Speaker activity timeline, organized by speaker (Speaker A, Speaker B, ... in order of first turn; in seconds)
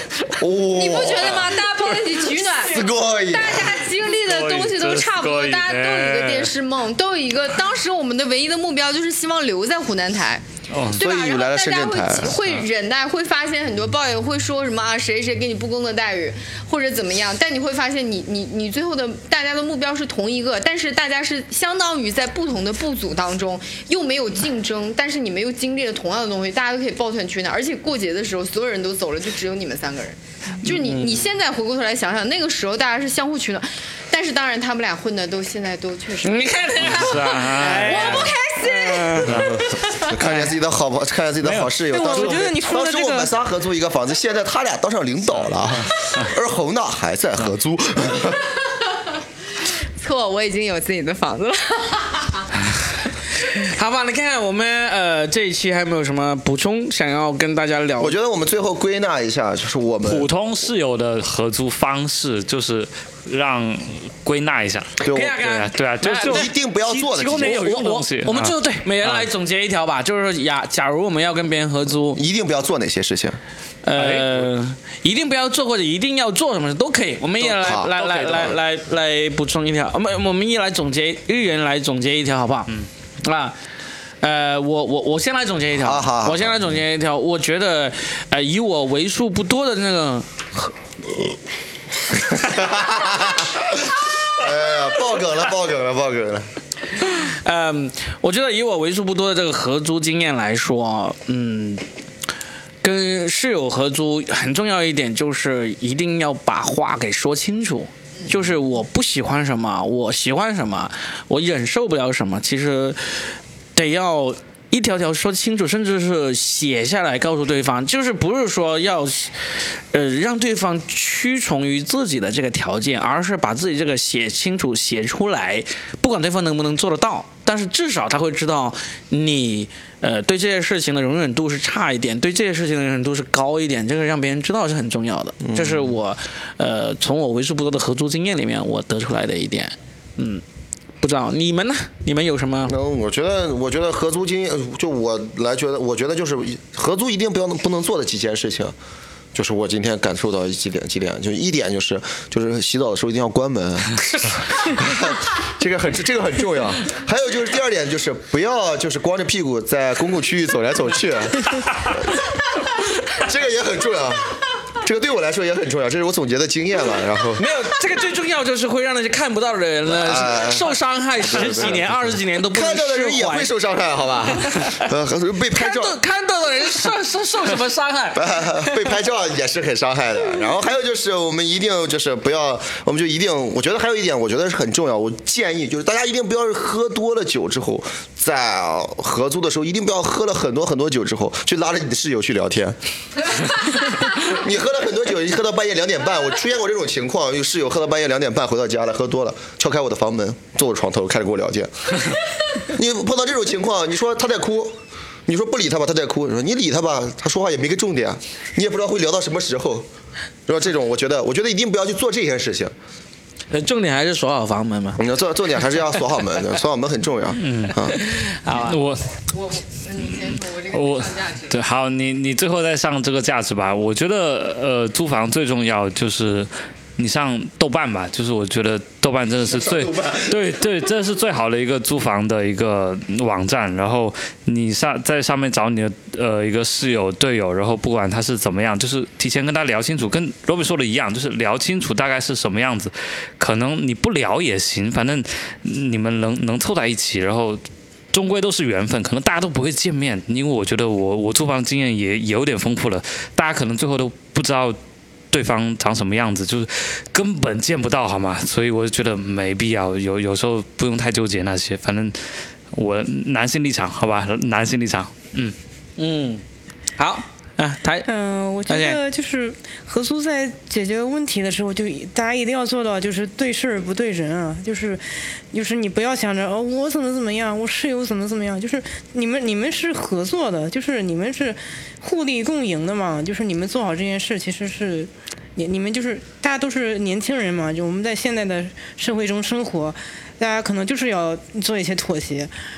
Speaker A: 0.3-1.5, 2.6-3.8, 10.9-12.4, 39.6-48.5, 58.0-60.3, 65.0-65.4, 66.2-67.7, 72.1-73.4, 77.4-77.9, 85.8-86.6, 92.1-96.5, 135.4-135.9, 142.7-148.7, 149.3-162.3, 163.1-167.4, 169.9-171.9, 172.5-176.0, 178.1-209.9, 210.5-212.7, 215.0-218.0, 229.5-230.4
Speaker B: 0.6-40.0, 50.0-52.5, 219.3-221.5
Speaker C: 4.2-6.5, 10.7-11.0, 36.8-38.3, 39.2-39.8, 41.4-42.3, 60.0-69.3, 74.0-74.5, 78.0-78.5, 217.4-218.0, 218.5-219.0, 220.7-247.6, 248.1-254.8, 255.3-262.2, 262.7-265.6
Speaker D: 30.6-31.2, 36.2-39.5, 53.4-58.1, 65.1-66.5, 67.3-72.2, 73.8-82.7, 83.2-83.5, 84.2-90.7, 97.0-101.8, 102.8-140.4, 141.0-142.7, 167.4-173.5, 174.4-174.8, 175.5-178.8, 213.5-215.0, 217.8-218.8, 266.0-266.4, 267.0-268.1, 268.7-269.0
Speaker E: 41.9-43.3, 268.1-292.5